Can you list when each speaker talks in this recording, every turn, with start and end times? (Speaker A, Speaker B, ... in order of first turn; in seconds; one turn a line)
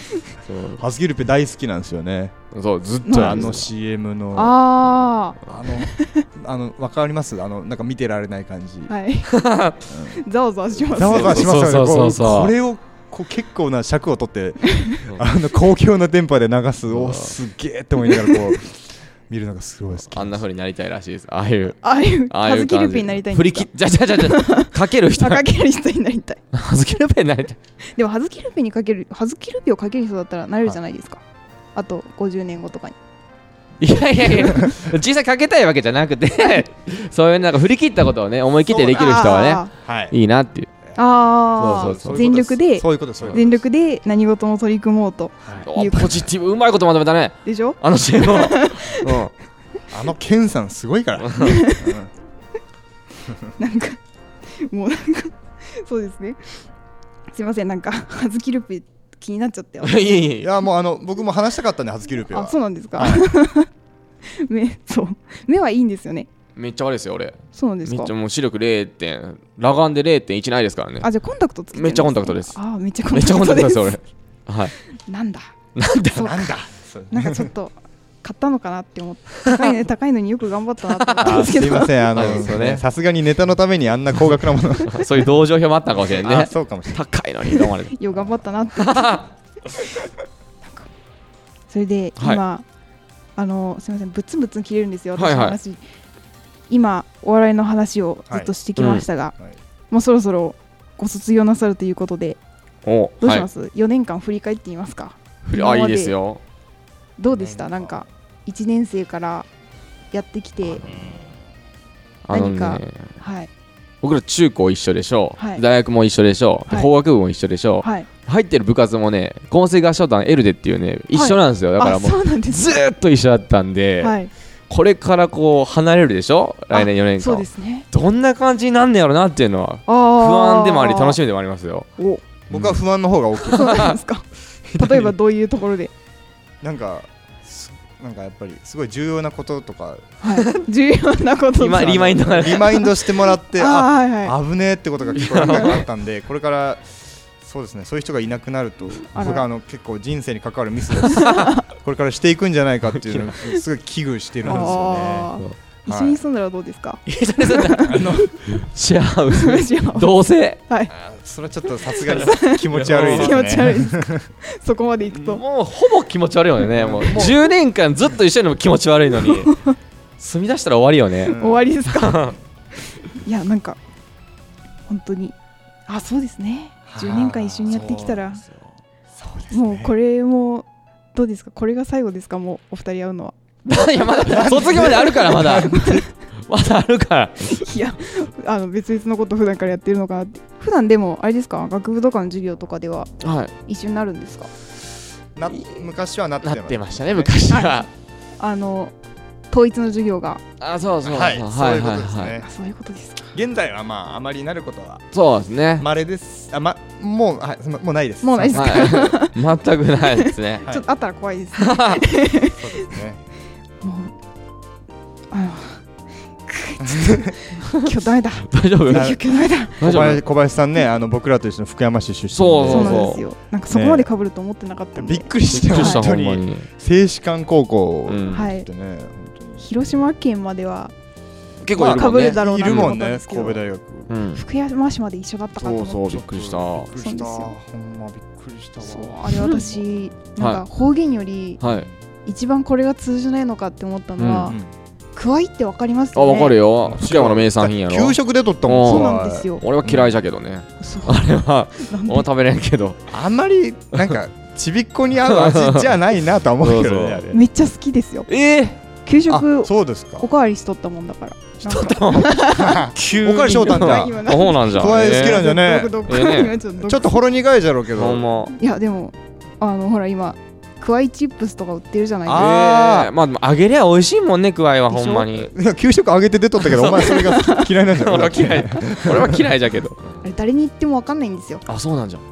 Speaker A: 0.5-0.8
Speaker B: 0.8-2.3
Speaker A: 2.5-3.7
Speaker C: 3.0-3.5
Speaker B: 3.1-4.5
Speaker C: 4.3-6.2
Speaker B: 5.4-8.9
Speaker C: 8.9-9.3
Speaker A: 9.3-9.8
Speaker B: 9.9-10.2
Speaker C: 10.0-11.5
Speaker B: 10.9-20.4
Speaker A: 10.9-12.5
Speaker C: 14.7-15.0
Speaker A: 16.9-17.4
Speaker A: 20.1-25.4
Speaker C: 21.8-26.4
Speaker A: 26.5-27.6
Speaker C: 27.9-31.2
Speaker C: 31.7-33.0
Speaker A: 33.8-40.7
Speaker C: 38.7-39.7
Speaker B: 39.8-40.1
Speaker C: 41.0-46.2
Speaker A: 41.6-42.3
Speaker B: 41.6-43.6
Speaker A: 45.6-49.3
Speaker C: 47.4-49.1
Speaker B: 49.9-52.1
Speaker A: 51.2-51.6
Speaker C: 51.4-51.9
Speaker C: 53.6-54.0
Speaker C: 54.5-56.6
Speaker C: 57.3-60.2
Speaker A: 59.8-60.5
Speaker B: 60.4-63.3
Speaker C: 62.3-63.7
Speaker C: 64.2-66.3
Speaker A: 66.5-71.1
Speaker C: 67.5-68.1
Speaker C: 71.0-74.0
Speaker A: 71.7-72.6
Speaker A: 73.1-74.7
Speaker C: 75.1-75.5
Speaker A: 75.7-76.5
Speaker B: 76.1-77.5
Speaker C: 77.1-82.2
Speaker A: 81.0-81.5
Speaker B: 81.2-85.2
Speaker A: 82.1-82.8
Speaker A: 84.8-88.0
Speaker B: 86.0-87.0
Speaker C: 87.5-89.2
Speaker A: 88.8-89.2
Speaker C: 91.7-92.6
Speaker C: 93.3-95.8
Speaker A: 95.2-95.6
Speaker C: 96.7-99.3
Speaker A: 98.8-99.0
Speaker C: 99.9-102.4
Speaker A: 102.8-103.5
Speaker C: 103.2-106.2
Speaker A: 105.5-106.4
Speaker C: 107.2-109.5
Speaker B: 107.4-107.9
Speaker C: 110.1-110.8
Speaker A: 110.7-111.0
Speaker B: 110.8-111.2
Speaker A: 112.3-113.1
Speaker C: 112.3-113.5
Speaker A: 114.0-124.2
Speaker C: 115.4-115.6
Speaker C: 117.8-118.1
Speaker C: 121.1-122.8
Speaker C: 124.0-124.3
Speaker A: 124.7-131.9
Speaker C: 126.7-127.8
Speaker C: 129.9-131.2
Speaker C: 132.0-132.2
Speaker A: 132.5-132.8
Speaker B: 132.5-133.8
Speaker A: 133.4-133.9
Speaker C: 133.5-135.9
Speaker B: 134.7-135.1
Speaker B: 136.6-140.1
Speaker C: 140.2-144.3
Speaker A: 140.3-140.6
Speaker A: 141.6-142.8
Speaker B: 141.7-155.3
Speaker A: 145.1-145.8
Speaker C: 149.1-149.4
Speaker C: 151.0-151.7
Speaker A: 151.2-151.5
Speaker A: 152.9-153.4
Speaker C: 154.4-158.3
Speaker A: 154.5-154.7
Speaker B: 155.9-156.2
Speaker A: 157.1-160.6
Speaker B: 157.9-158.3
Speaker C: 159.3-160.1
Speaker C: 160.7-160.9
Speaker B: 160.9-164.3
Speaker C: 161.9-165.4
Speaker A: 162.1-163.7
Speaker A: 165.1-169.6
Speaker B: 166.7-167.4
Speaker C: 169.2-169.7
Speaker A: 170.2-172.3
Speaker B: 171.2-171.7
Speaker C: 171.3-172.3
Speaker C: 173.0-173.8
Speaker C: 174.9-175.3
Speaker C: 175.9-178.4
Speaker B: 176.9-178.3
Speaker B: 179.1-179.9
Speaker C: 179.5-183.3
Speaker A: 183.6-187.7
Speaker C: 184.1-186.1
Speaker B: 184.3-185.8
Speaker C: 187.4-193.1
Speaker A: 193.2-193.5
Speaker C: 193.7-194.5
Speaker B: 195.3-197.3
Speaker A: 196.4-197.9
Speaker C: 197.5-197.9
Speaker C: 198.4-198.9
Speaker C: 199.5-200.4
Speaker A: 200.6-202.4
Speaker B: 201.0-202.4
Speaker C: 202.4-203.3
Speaker B: 203.3-205.0
Speaker A: 205.1-205.8
Speaker B: 205.8-209.1
Speaker C: 208.2-209.3
Speaker A: 208.5-210.7
Speaker C: 210.0-212.9
Speaker A: 211.6-212.0
Speaker B: 212.4-213.2
Speaker C: 213.8-214.1
Speaker C: 215.3-215.8
Speaker C: 216.4-219.8
Speaker B: 216.8-217.3
Speaker A: 218.5-219.2
Speaker B: 218.9-219.2
Speaker A: 219.8-220.2
Speaker B: 219.8-223.2
Speaker A: 222.3-223.2
Speaker C: 222.6-226.1
Speaker B: 223.7-224.1
Speaker B: 224.9-229.6
Speaker A: 225.5-226.7
Speaker A: 228.1-228.5
Speaker C: 228.3-228.7
Speaker C: 229.6-230.9
Speaker A: 231.6-232.9
Speaker C: 231.7-233.6
Speaker B: 231.7-234.1
Speaker A: 234.1-234.4
Speaker C: 234.3-236.1
Speaker A: 235.6-236.9
Speaker B: 236.1-239.8
Speaker C: 236.9-237.5
Speaker C: 238.8-241.6
Speaker A: 240.4-240.6
Speaker A: 241.6-241.9
Speaker B: 241.6-241.9
Speaker C: 242.2-244.6
Speaker A: 244.2-244.5
Speaker C: 245.1-246.6
Speaker A: 246.1-253.0
Speaker B: 246.8-250.2
Speaker C: 248.8-249.6
Speaker C: 250.8-252.2
Speaker B: 253.1-257.4
Speaker A: 255.2-256.0
Speaker A: 256.6-257.3
Speaker C: 257.3-258.3
Speaker A: 258.3-258.8
Speaker C: 259.0-262.9
Speaker B: 259.3-260.2
Speaker A: 261.6-265.5
Speaker B: 262.3-266.0
Speaker C: 263.5-267.2
Speaker A: 266.1-266.6
Speaker B: 266.8-268.2
Speaker A: 267.9-268.5
Speaker C: 268.6-272.5
Speaker B: 272.2-273.1
Speaker A: 272.3-275.5
Speaker C: 274.9-275.4
Speaker B: 275.4-279.5
Speaker A: 276.6-280.2
Speaker C: 277.3-277.6
Speaker C: 280.2-281.6
Speaker A: 281.7-282.2